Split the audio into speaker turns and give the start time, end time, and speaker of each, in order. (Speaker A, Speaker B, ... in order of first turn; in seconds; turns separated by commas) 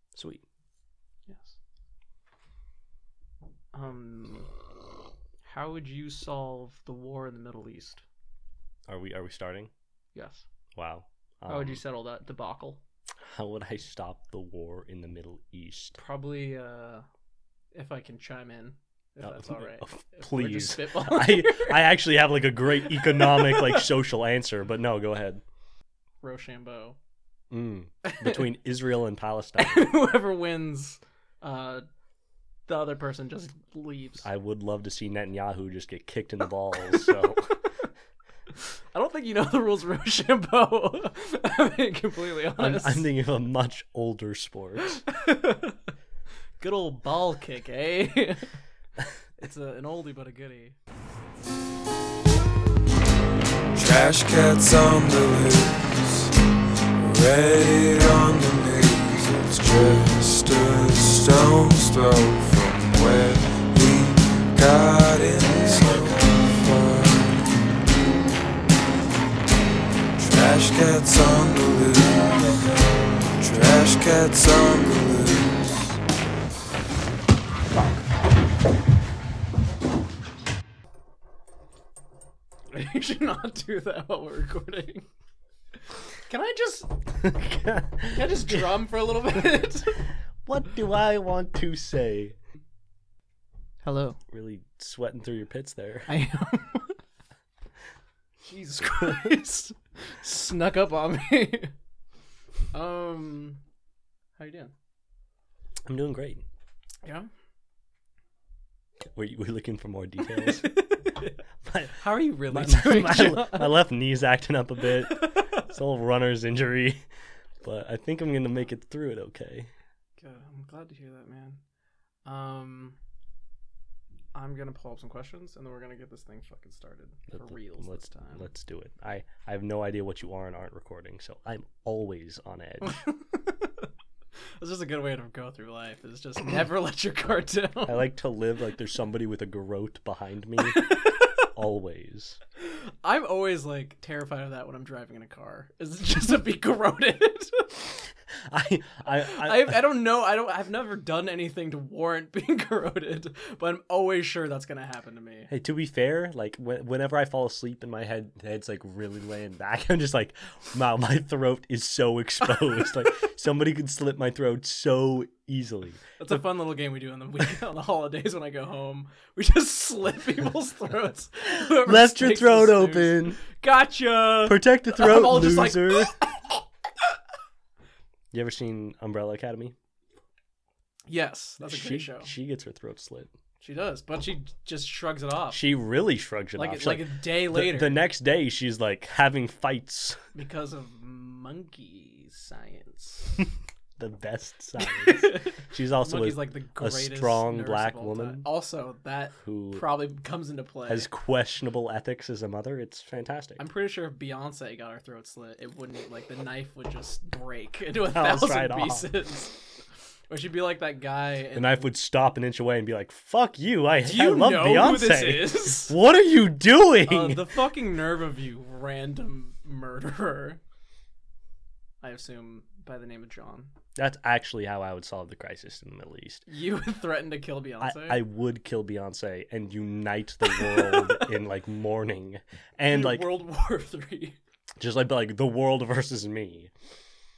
Speaker A: 0.1-0.4, Speaker B: 1.3-1.6, Speaker B: 3.7-4.5, Speaker B: 5.5-8.0, Speaker A: 8.9-9.7, Speaker B: 10.1-10.4, Speaker A: 10.7-11.8, Speaker B: 11.5-12.8, Speaker A: 13.2-16.0, Speaker B: 16.0-17.1, Speaker B: 17.7-21.8, Speaker A: 19.2-25.4, Speaker B: 22.8-23.9, Speaker B: 26.2-27.0, Speaker A: 27.5-29.9, Speaker B: 28.0-28.5, Speaker B: 29.6-31.9, Speaker B: 32.7-34.2, Speaker A: 34.2-37.6, Speaker B: 38.6-43.1, Speaker A: 42.6-45.0, Speaker B: 44.9-45.8, Speaker B: 46.6-48.5, Speaker B: 49.4-50.8, Speaker C: 53.7-56.3, Speaker C: 57.0-67.5, Speaker C: 70.2-76.0, Speaker B: 82.7-85.0, Speaker B: 86.2-87.0, Speaker A: 87.2-88.7, Speaker B: 88.1-90.1, Speaker A: 90.4-92.3, Speaker B: 93.8-94.2, Speaker A: 94.3-96.1, Speaker B: 96.1-97.0, Speaker B: 98.4-101.7, Speaker B: 102.7-103.6, Speaker B: 104.4-104.7, Speaker A: 105.8-106.4, Speaker A: 109.1-110.7, Speaker B: 110.2-111.4, Speaker A: 111.6-117.0, Speaker B: 111.9-113.8, Speaker B: 115.1-115.7, Speaker A: 117.6-119.7, Speaker B: 120.2-121.6, Speaker B: 122.2-123.0, Speaker B: 124.3-128.5, Speaker A: 127.3-133.0, Speaker B: 132.8-133.8, Speaker B: 134.6-138.1, Speaker A: 137.8-140.8, Speaker B: 140.6-141.4, Speaker A: 141.5-142.4, Speaker B: 142.6-147.9, Speaker A: 148.4-149.8, Speaker B: 149.1-155.5, Speaker A: 155.5-166.4, Speaker B: 166.2-176.6, Speaker A: 171.6-173.4, Speaker A: 174.4-176.1, Speaker A: 178.3-179.7, Speaker B: 181.1-182.3, Speaker A: 181.6-183.3, Speaker B: 183.6-185.6, Speaker A: 185.5-190.2, Speaker B: 186.6-188.0, Speaker B: 190.3-193.5, Speaker A: 194.0-198.4, Speaker B: 194.8-201.1, Speaker A: 199.4-199.8, Speaker A: 200.9-203.6, Speaker B: 203.6-209.7, Speaker A: 208.1-209.1, Speaker B: 210.3-211.8, Speaker A: 211.5-217.4, Speaker B: 214.0-215.9, Speaker B: 217.1-220.6, Speaker B: 222.0-223.7, Speaker A: 223.9-226.4, Speaker B: 226.5-228.2, Speaker A: 227.8-233.2, Speaker B: 230.4-231.3, Speaker B: 232.9-234.4, Speaker A: 234.8-236.7